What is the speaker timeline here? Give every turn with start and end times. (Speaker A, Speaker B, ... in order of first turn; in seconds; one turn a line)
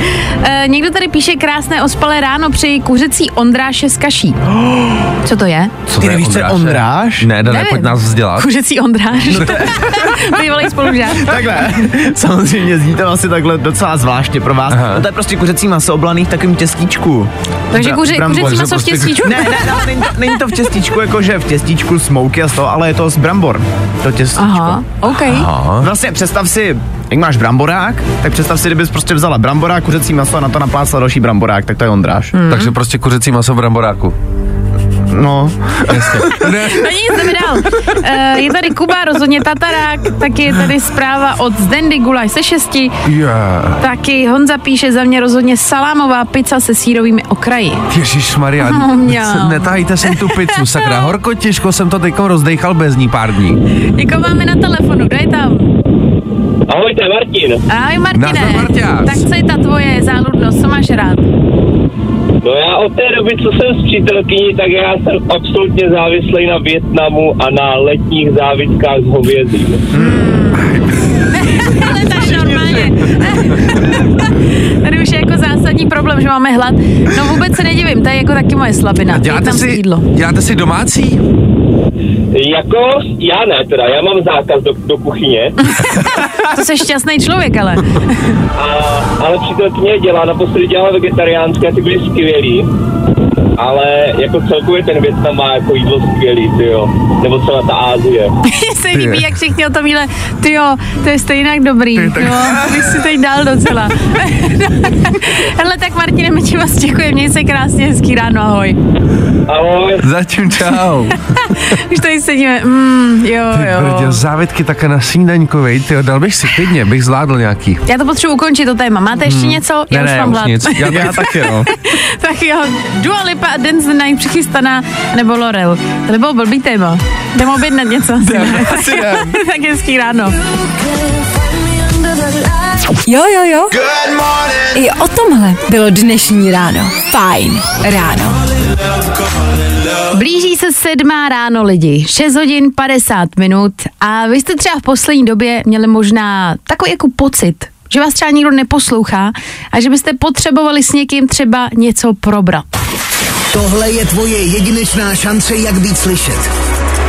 Speaker A: 0.3-4.4
Speaker B: 4.5-5.1
Speaker A: 5.2-5.7
Speaker C: 5.9-8.5
Speaker B: 6.0-7.3
Speaker A: 7.5-11.4
Speaker B: 9.3-10.0
Speaker B: 11.1-18.6
Speaker C: 14.7-15.0
Speaker A: 17.7-20.1
Speaker C: 18.3-19.5
Speaker B: 19.2-24.8
Speaker A: 24.4-25.5
Speaker C: 25.3-25.9
Speaker B: 25.8-32.3
Speaker A: 32.4-32.7
Speaker C: 32.5-34.1
Speaker B: 35.1-36.5
Speaker C: 35.9-37.0
Speaker A: 36.4-42.9
Speaker C: 43.0-43.8
Speaker A: 43.8-47.8
Speaker C: 47.9-53.6
Speaker A: 48.6-51.0
Speaker A: 54.0-55.7
Speaker D: 56.7-57.6
Speaker A: 57.7-61.3
Speaker C: 58.1-59.2
Speaker D: 62.4-69.8
Speaker A: 70.0-70.7
Speaker C: 70.6-71.2
Speaker A: 71.3-80.1
Speaker C: 79.1-81.2
Speaker D: 82.3-85.5
Speaker A: 85.8-88.4
Speaker D: 88.6-92.7
Speaker D: 93.6-98.3
Speaker A: 98.5-108.8
Speaker D: 109.5-110.0
Speaker C: 110.0-111.2
Speaker A: 111.4-114.2
Speaker C: 113.5-117.8
Speaker A: 117.9-130.4
Speaker C: 119.3-121.2
Speaker B: 120.8-121.7
Speaker B: 128.3-129.4
Speaker E: 133.1-133.8
Speaker E: 134.7-138.4
Speaker A: 140.1-152.7
Speaker F: 153.5-156.5